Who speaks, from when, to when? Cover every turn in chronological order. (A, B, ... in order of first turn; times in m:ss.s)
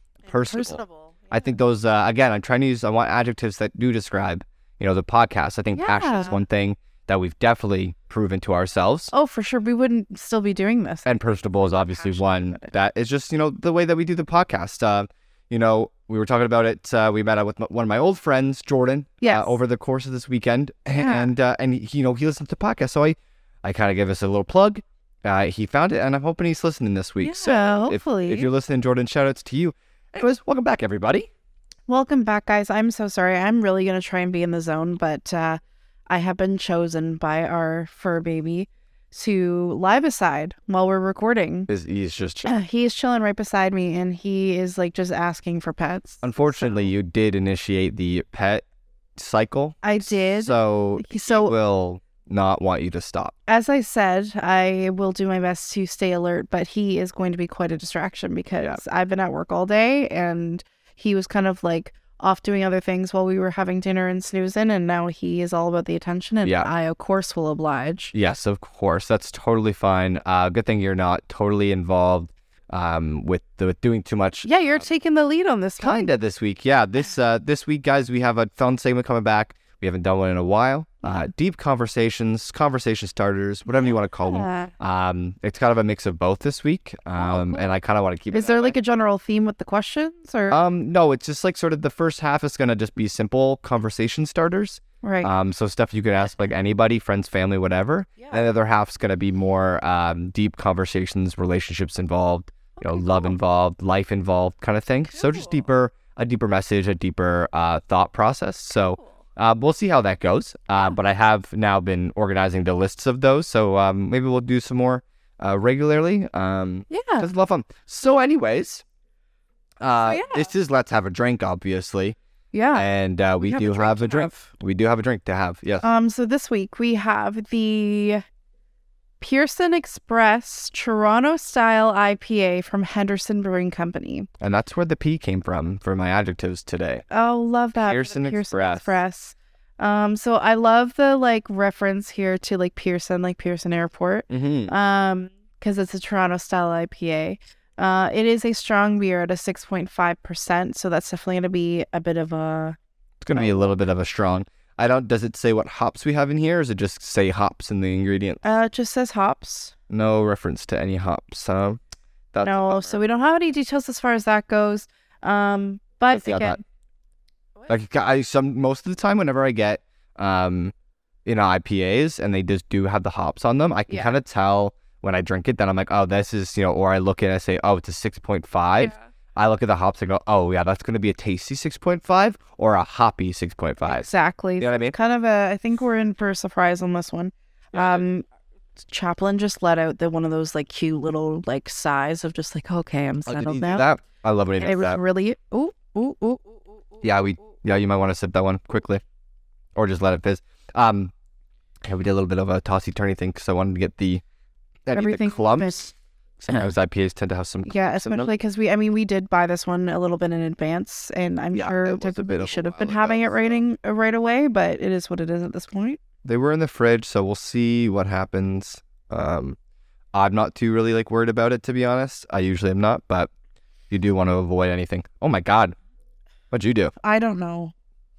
0:00.3-0:01.5 A
0:00.3-0:09.1 B
0:05.7-0:06.4 A
0:09.1-0:12.7 A
0:11.0-0:31.3 B
0:19.2-0:19.6 A
0:20.9-0:21.3 A
0:27.2-0:28.5 A
0:31.9-0:41.7 A
0:41.7-0:42.5 B
0:42.4-0:46.9 A
0:46.2-0:48.6 B
0:49.2-0:53.3 B
0:49.8-0:51.5 A
0:53.5-1:08.1 A
1:06.4-1:06.7 B
1:08.1-1:14.8 B
1:14.4-1:16.1 A
1:15.8-1:28.8 B
1:23.7-1:24.7 A
1:27.2-1:27.7 A
1:28.3-1:30.6 A
1:30.5-1:58.8 B
1:35.0-1:35.3 A
1:38.2-1:38.4 A
1:42.8-1:43.3 A
1:45.1-1:45.6 A
1:56.9-1:57.3 A
1:59.8-2:02.2 B
2:00.0-2:00.5 A
2:02.5-2:02.8 A
2:02.7-2:05.8 B
2:03.4-2:04.3 A
2:05.8-2:08.2 A
2:09.2-2:14.3 A
2:14.4-2:17.0 B
2:17.1-2:32.8 A
2:17.8-2:18.9 B
2:24.3-2:24.7 B
2:33.2-2:38.4 B
2:33.3-2:33.6 A
2:38.4-2:39.7 A
2:39.9-2:41.8 B
2:42.3-2:43.0 B
2:42.4-2:46.6 A
2:46.1-2:46.6 B
2:47.7-2:50.7 B
2:51.2-3:04.9 B
2:53.9-2:54.1 A
3:03.8-3:08.2 A
3:07.7-3:08.0 B
3:08.9-3:13.9 A
3:13.2-3:15.0 B
3:14.6-3:17.0 A
3:17.0-3:19.0 B
3:19.7-3:21.1 B
3:21.8-3:24.2 B
3:24.8-3:25.9 B
3:24.9-3:25.9 A
3:26.4-3:28.3 B
3:27.6-3:36.0 A
3:31.5-3:33.6 B
3:36.2-3:39.6 B
3:40.1-3:43.3 B
3:43.9-3:45.7 B
3:46.5-3:46.9 B
3:47.0-3:47.7 A